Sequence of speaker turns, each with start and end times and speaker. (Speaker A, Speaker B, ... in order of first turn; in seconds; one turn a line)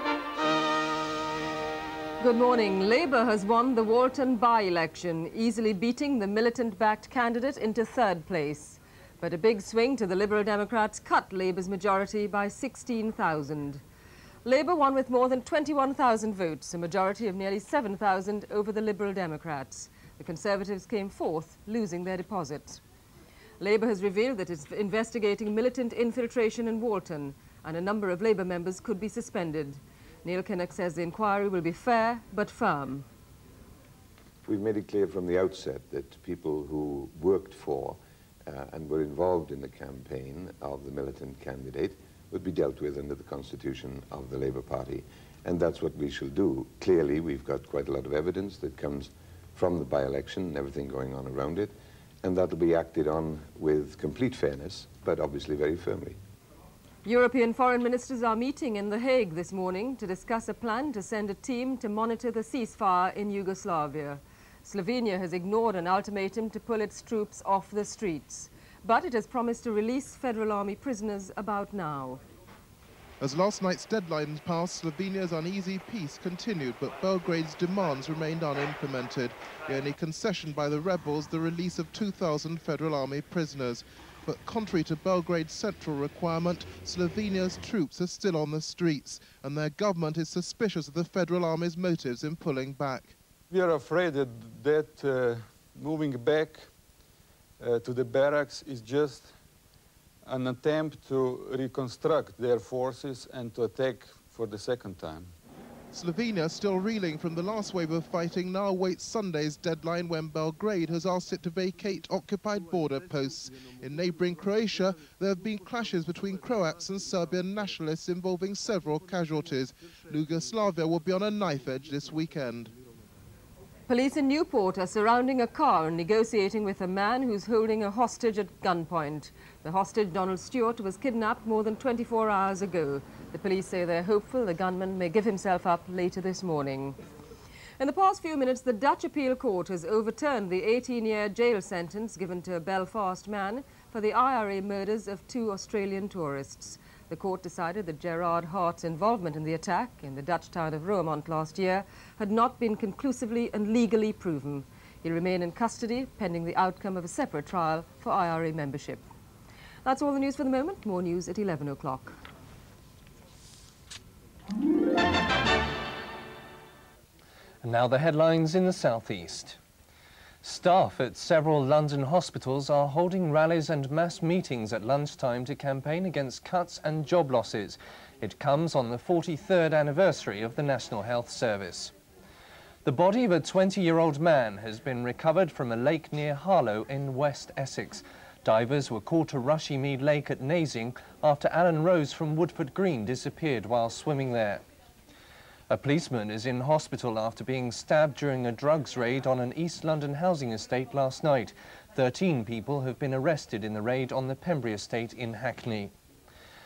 Speaker A: 2.2-13.8
Speaker A: 14.4-22.8
Speaker A: 23.6-33.0
Speaker B: 34.5-56.2
Speaker A: 57.0-72.2
Speaker C: 73.2-93.1
Speaker D: 93.5-96.7
Speaker D: 97.6-99.3
Speaker D: 100.2-105.3
Speaker C: 105.9-122.7
Speaker A: 123.9-136.9
Speaker A: 137.8-159.0
Speaker A: 159.8-162.1
Speaker E: 167.6-169.6
Speaker E: 170.4-181.9
Speaker E: 182.8-194.6
Speaker E: 195.7-205.9